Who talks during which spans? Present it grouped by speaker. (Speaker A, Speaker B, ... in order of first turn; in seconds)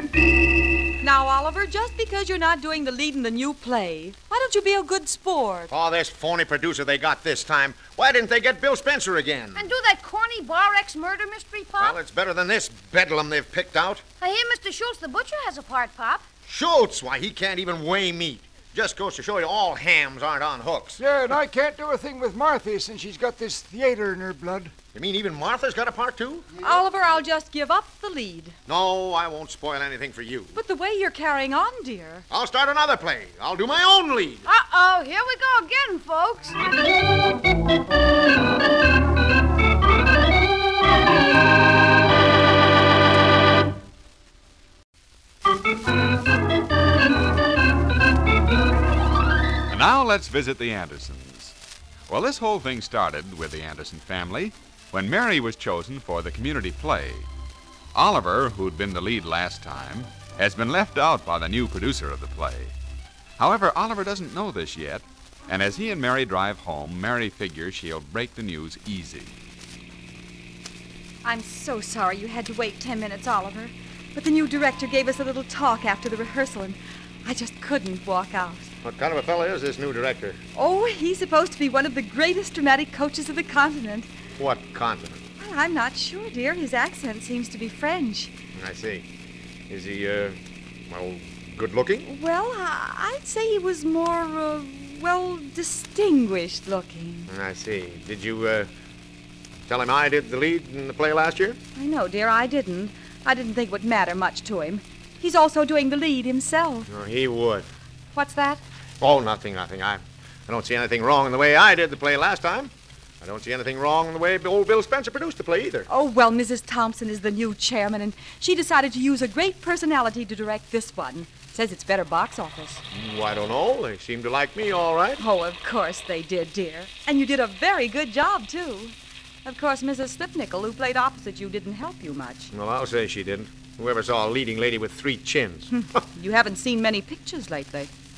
Speaker A: 1.0-5.7, 26.6-28.6, 30.5-32.2, 71.2-78.7, 80.5-84.1, 85.4-88.3, 92.0-97.3, 101.8-106.9, 108.1-108.6, 115.9-122.8, 125.2-132.5, 135.7-137.9
Speaker B: 5.7-9.7, 11.8-14.0, 16.4-21.0, 24.9-26.5, 28.7-30.6, 32.3-34.5, 78.8-80.4, 84.4-85.2, 88.5-89.0, 89.7-90.4, 90.9-92.1, 97.3-98.7, 99.7-101.6, 106.9-107.7, 109.0-115.9, 122.9-125.2, 132.5-135.7
Speaker C: 9.6-12.0, 14.2-16.2, 34.4-36.6
Speaker D: 21.0-24.7, 26.6-26.8
Speaker E: 49.7-51.5, 52.1-57.3, 57.9-62.7, 63.4-69.3